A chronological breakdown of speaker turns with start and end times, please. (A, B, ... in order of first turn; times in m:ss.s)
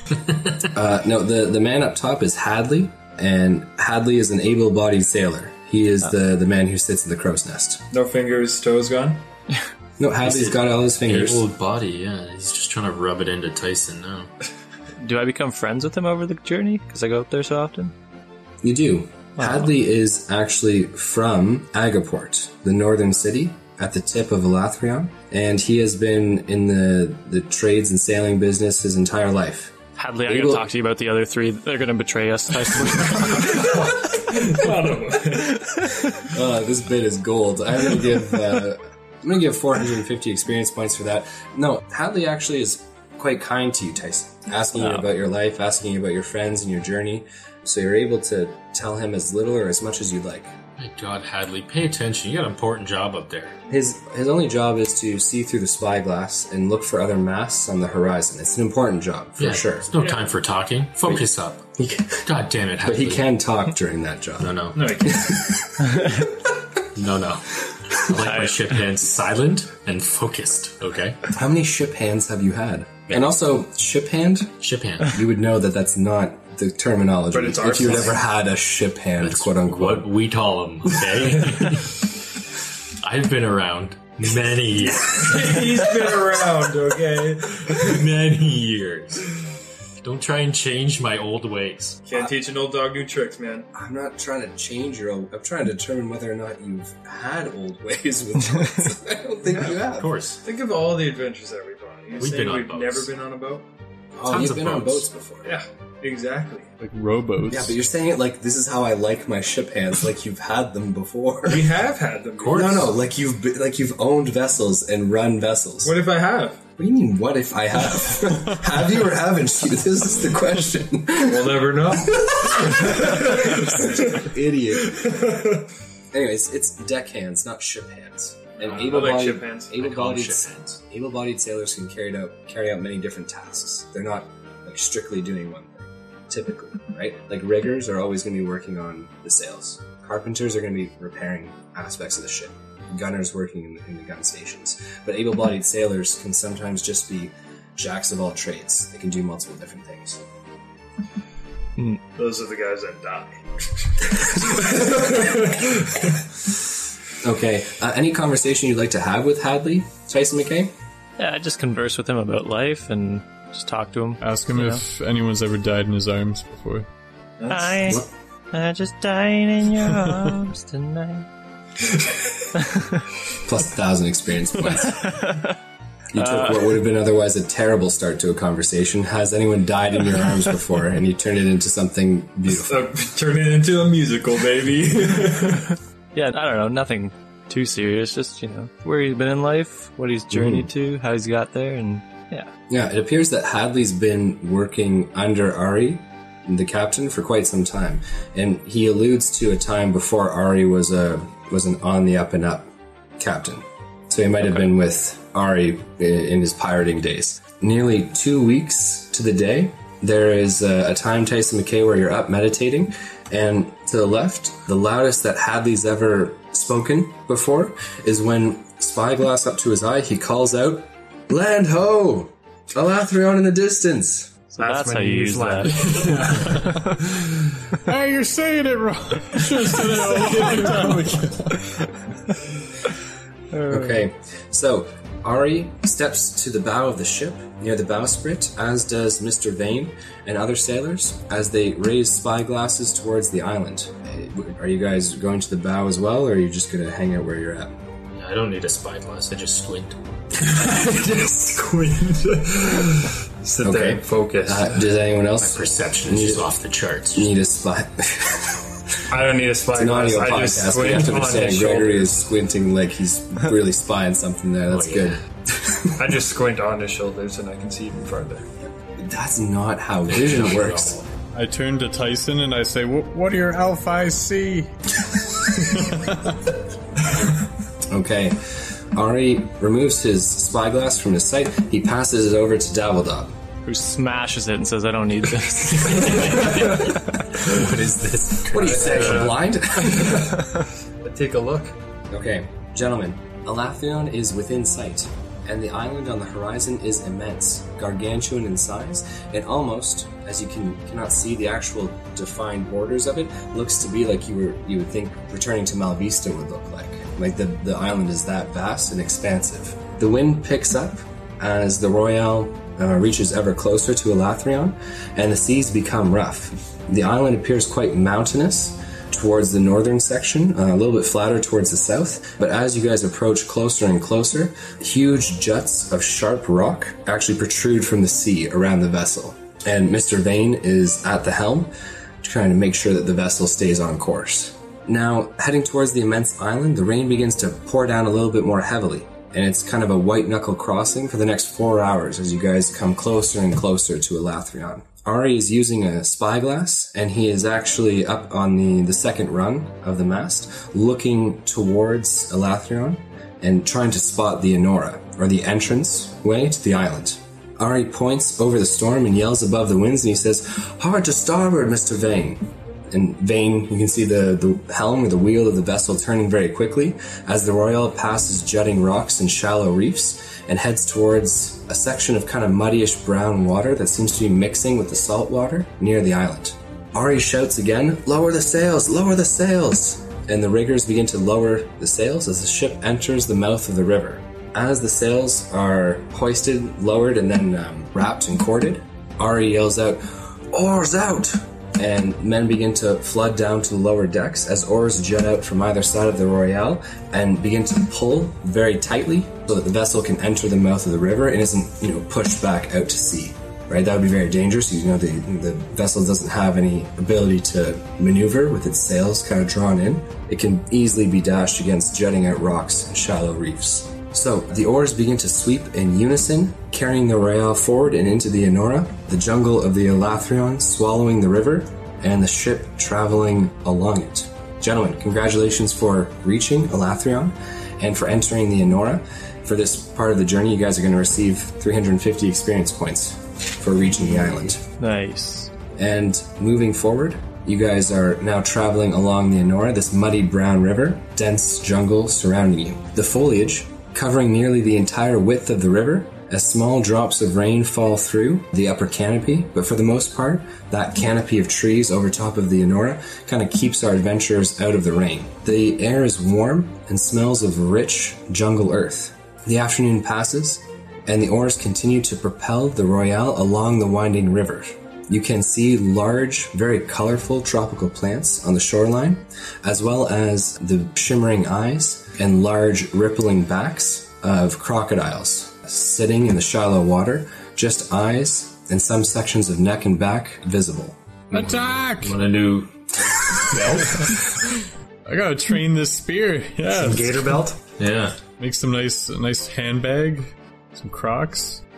0:00.6-0:07.8 A
0:07.9-0:09.2 B
0:10.0-0:11.4 A
0:10.2-0:14.3 C
0:15.0-0:17.9 D
0:18.6-0:29.7 A
0:19.4-0:19.7 D
0:30.0-0:33.8 D
0:30.2-0:30.7 A
0:33.4-0:35.9 B
0:36.2-0:50.5 A
0:44.7-0:45.0 D
0:50.8-0:53.6 C
0:53.7-0:59.9 A
0:59.4-1:01.7 C
1:01.1-1:02.2 A
1:02.2-1:03.2 C
1:02.8-1:06.3 A
1:04.4-1:05.0 C
1:04.8-1:05.5 B
1:06.9-1:11.2 C
1:08.2-1:08.6 D
1:11.3-1:20.1 A
1:14.6-1:15.2 C
1:17.3-1:18.2 B
1:19.2-1:22.1 C
1:23.0-1:26.0 C
1:24.8-1:28.0 B
1:27.7-1:29.4 C
1:30.0-1:32.0 C
1:32.1-1:33.7 B
1:33.7-1:40.1 A
1:39.8-1:40.4 C
1:40.4-1:43.6 B
1:42.2-1:43.1 C
1:44.1-1:45.6 A
1:44.2-1:45.1 C
1:45.4-1:46.8 B
1:46.8-1:47.8 E
1:47.5-1:51.7 A
1:51.4-1:52.9 B
1:52.4-1:52.9 C
1:52.5-1:56.0 A
1:55.8-1:56.6 B
1:56.8-2:05.0 A
2:01.2-2:05.7 B
2:06.1-2:30.2 A
2:08.6-2:09.7 B
2:08.6-2:10.8 C
2:32.1-2:36.2 B
2:37.2-2:40.7 A
2:41.2-2:44.8 D
2:44.2-2:46.9 E
2:47.4-2:48.0 B
2:47.5-2:51.3 D
2:52.6-2:53.0 D
2:53.4-2:55.2 A
2:54.9-2:55.5 D
2:56.1-3:02.9 A
2:56.2-2:56.6 D
3:02.6-3:05.8 B
3:06.1-3:12.5 D
3:10.3-3:10.7 A
3:12.7-3:44.3 A
3:44.5-3:46.1 D
3:44.6-3:47.3 B
3:46.3-3:47.0 E
3:47.7-3:51.8 E
3:53.5-3:54.1 D
3:53.7-4:07.8 A
4:08.1-4:10.0 C
4:10.4-4:14.8 B
4:13.6-4:16.5 A
4:15.4-4:17.3 C
4:17.1-4:18.9 A
4:19.1-4:22.2 B
4:19.7-4:26.2 A
4:24.7-4:25.2 C
4:25.9-4:28.4 B
4:29.0-4:31.0 A
4:30.1-4:31.1 C
4:31.3-4:36.6 E
4:37.9-4:43.4 A
4:43.6-4:46.3 D
4:45.8-4:49.3 C
4:48.4-4:50.4 A
4:48.6-4:51.8 B
4:52.1-5:31.7 A
5:32.2-7:14.6 A
7:14.8-7:15.5 D
7:15.8-8:01.0 A
8:01.3-8:02.2 E
8:01.3-8:04.2 C
8:03.9-8:04.4 E
8:05.1-8:07.2 E
8:06.7-8:07.6 B
8:07.8-8:08.2 C
8:08.4-8:11.6 E